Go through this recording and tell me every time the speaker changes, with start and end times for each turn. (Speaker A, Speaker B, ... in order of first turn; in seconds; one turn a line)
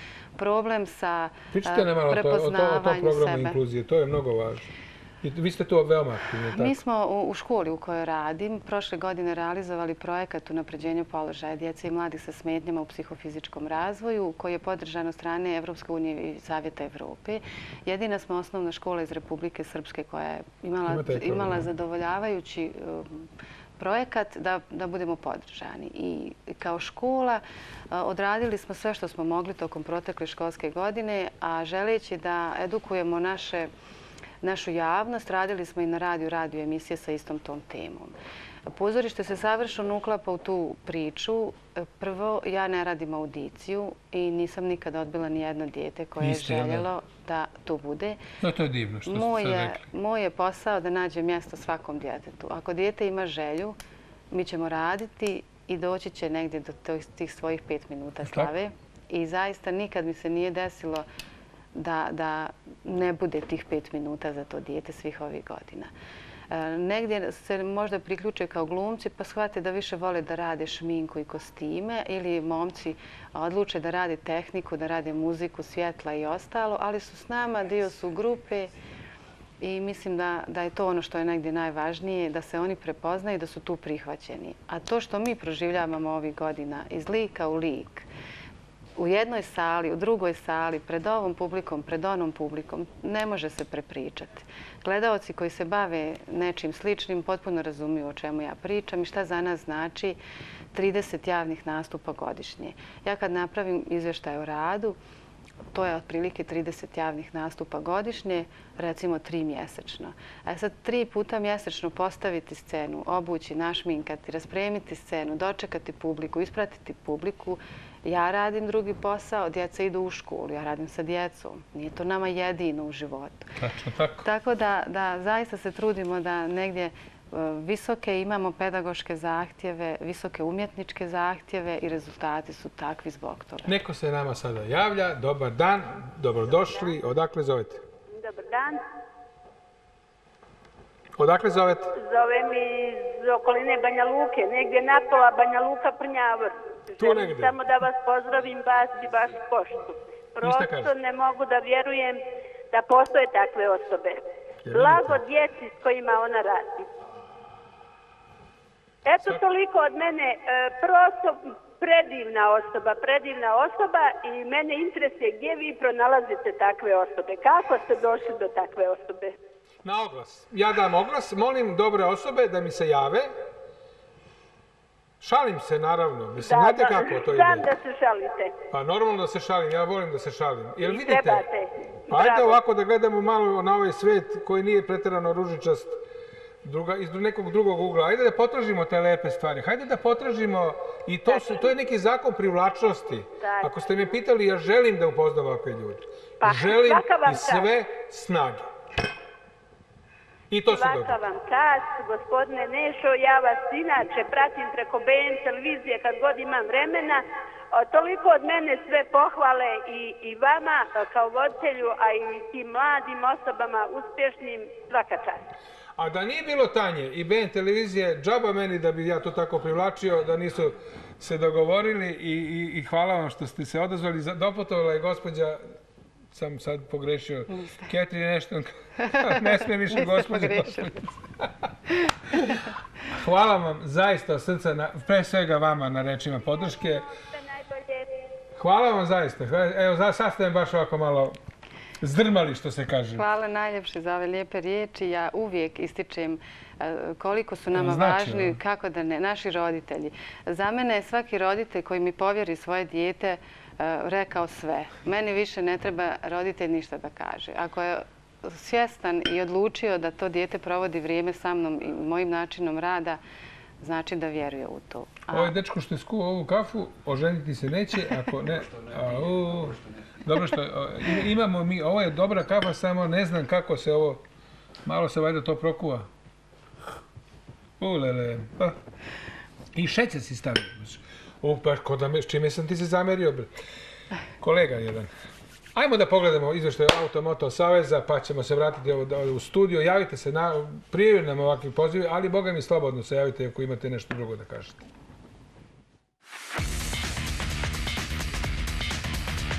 Speaker A: 0.4-3.6
Speaker B: 1.5-6.8
Speaker A: 6.5-23.3
Speaker B: 20.9-21.7
Speaker A: 23.8-33.7
Speaker A: 34.4-38.1
Speaker A: 38.7-48.2
Speaker B: 46.2-46.9
Speaker B: 48.4-49.9
Speaker A: 49.1-53.8
Speaker A: 54.3-61.1
Speaker B: 58.2-58.5
Speaker A: 61.7-65.9
Speaker A: 66.5-78.7
Speaker A: 79.6-88.1
Speaker A: 89.0-100.2
Speaker A: 100.7-105.0
Speaker A: 105.7-123.5
Speaker B: 123.6-124.2
Speaker A: 124.2-133.8
Speaker B: 133.7-137.8
Speaker C: 138.1-138.8
Speaker B: 141.2-141.9
Speaker C: 142.0-156.9
Speaker B: 147.0-147.6
Speaker B: 150.4-150.9
Speaker B: 154.7-155.2
Speaker C: 159.1-169.4
Speaker B: 169.8-173.3
Speaker B: 175.2-177.7
Speaker C: 176.4-178.5
Speaker B: 178.7-181.4
Speaker C: 180.8-182.6
Speaker B: 182.1-186.0
Speaker B: 186.6-198.7
Speaker C: 191.3-191.7
Speaker C: 193.4-193.7
Speaker C: 196.4-197.7
Speaker B: 200.5-201.2
Speaker C: 200.7-215.4
Speaker B: 216.0-225.6
Speaker B: 226.3-231.7
Speaker A: 227.5-227.9
Speaker A: 229.0-231.0
Speaker A: 231.9-232.6
Speaker B: 232.3-237.1
Speaker C: 236.7-238.2
Speaker B: 238.6-241.4
Speaker B: 242.0-243.3
Speaker A: 243.2-263.2
Speaker B: 247.7-248.6
Speaker A: 263.8-265.5
Speaker B: 265.3-274.2
Speaker B: 274.9-276.1
Speaker B: 277.8-278.8
Speaker B: 279.7-283.5
Speaker B: 284.4-285.1
Speaker B: 285.7-294.8